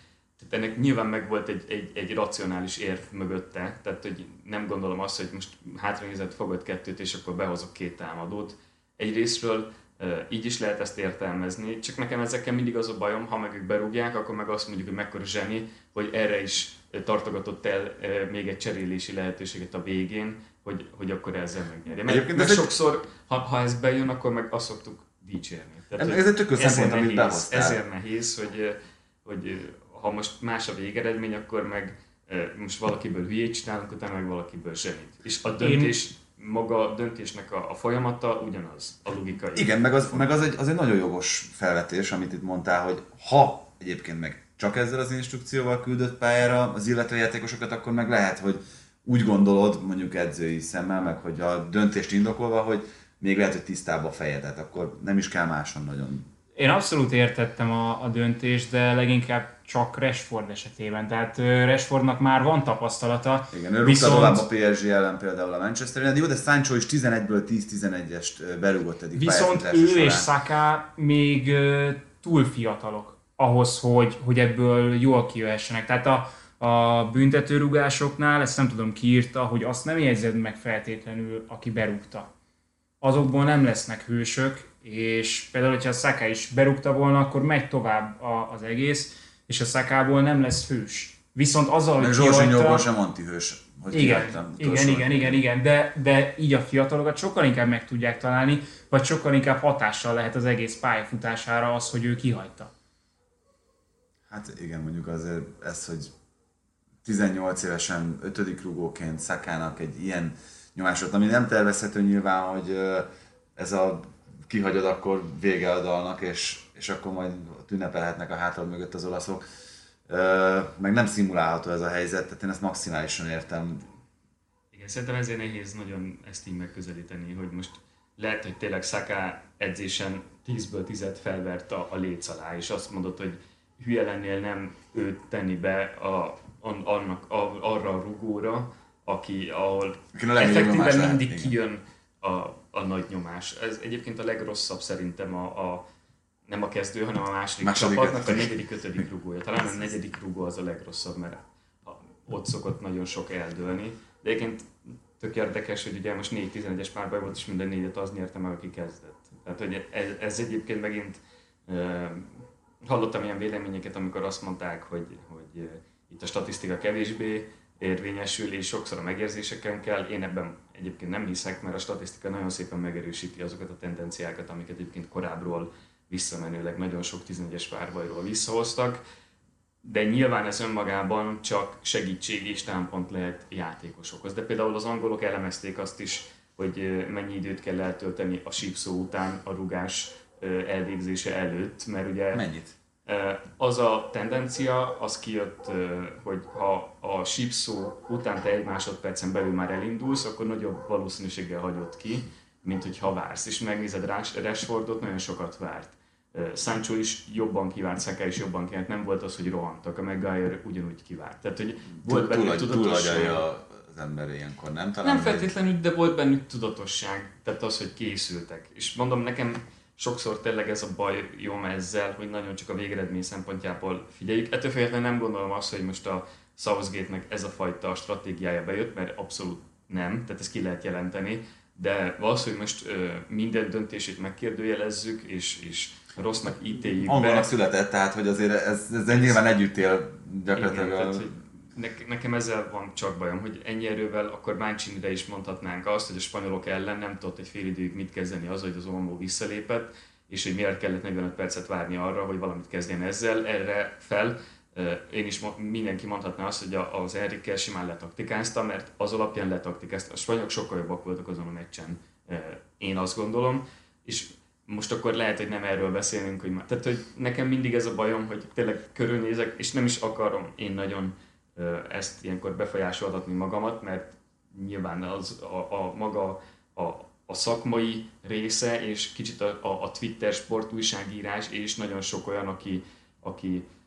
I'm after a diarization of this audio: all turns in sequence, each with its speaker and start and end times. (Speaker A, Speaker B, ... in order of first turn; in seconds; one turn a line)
Speaker A: 0.4-40.3
Speaker B: 22.1-22.7
Speaker B: 25.9-27.8
Speaker C: 35.6-35.9
Speaker B: 39.5-56.3
Speaker C: 56.5-64.5
Speaker B: 63.5-70.3
Speaker C: 69.1-82.3
Speaker C: 83.0-92.8
Speaker B: 92.0-95.4
Speaker C: 93.9-102.7
Speaker B: 104.3-106.1
Speaker B: 107.0-119.4
Speaker B: 120.1-123.8
Speaker A: 124.7-145.8
Speaker B: 140.1-141.5
Speaker A: 146.5-179.0
Speaker B: 147.6-148.5
Speaker A: 179.8-192.4
Speaker B: 192.3-192.7
Speaker A: 193.1-213.4
Speaker B: 212.0-215.5
Speaker A: 215.0-237.5
Speaker B: 237.0-241.2
Speaker A: 239.1-239.4
Speaker A: 240.5-283.6